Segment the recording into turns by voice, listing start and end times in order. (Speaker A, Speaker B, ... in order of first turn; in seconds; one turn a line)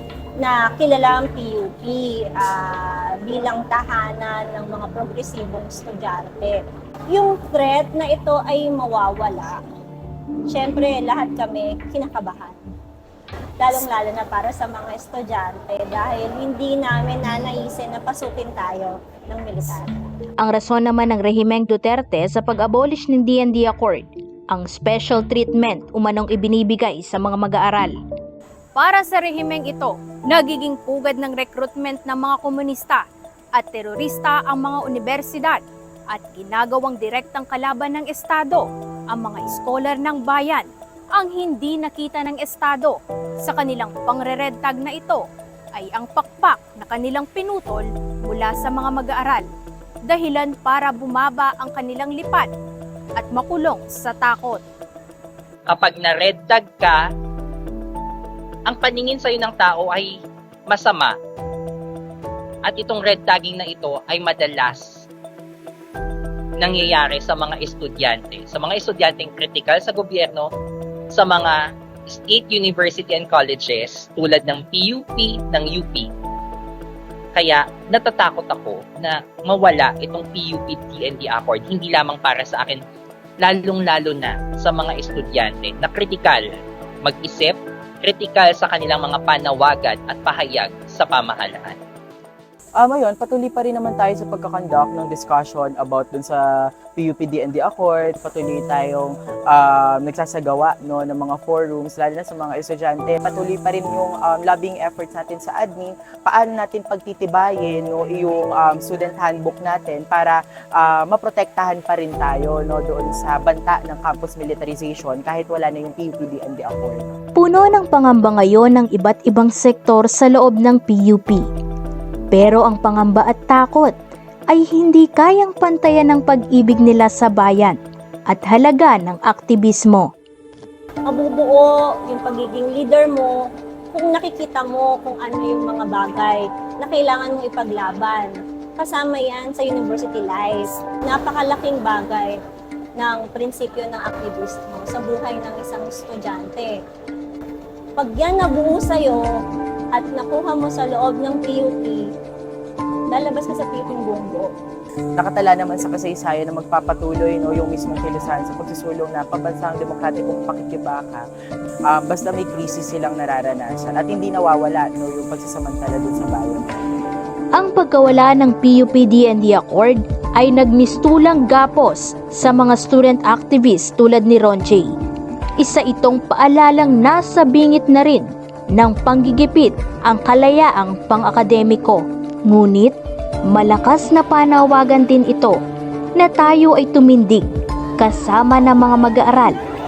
Speaker A: 0.4-6.6
Speaker A: 7.1-9.6
Speaker A: 10.5-12.6
Speaker A: 13.6-20.1
Speaker B: 20.4-27.9
Speaker C: 28.8-33.0
Speaker C: 33.5-45.2
Speaker C: 45.7-49.5
Speaker C: 50.1-52.5
Speaker C: 53.1-54.6
Speaker D: 55.7-57.0
Speaker D: 58.7-60.1
Speaker D: 60.7-61.1
Speaker D: 62.6-65.0
Speaker D: 66.6-70.5
Speaker D: 71.1-76.1
Speaker D: 77.3-82.8
Speaker D: 83.4-86.5
Speaker D: 87.0-91.8
Speaker E: 92.8-117.1
Speaker B: 117.4-121.5
Speaker B: 122.3-123.9
Speaker B: 124.5-127.8
Speaker B: 128.3-130.1
Speaker A: 131.1-133.4
Speaker A: 133.9-142.3
Speaker A: 143.0-146.8
Speaker A: 148.0-149.2
Speaker A: 149.9-152.0
Speaker A: 153.1-154.5
Speaker E: 155.2-161.2
Speaker E: 161.9-166.9
Speaker B: 167.6-174.9
Speaker B: 175.6-182.9
Speaker B: 183.5-185.6
Speaker B: 186.2-187.5
Speaker B: 188.0-189.6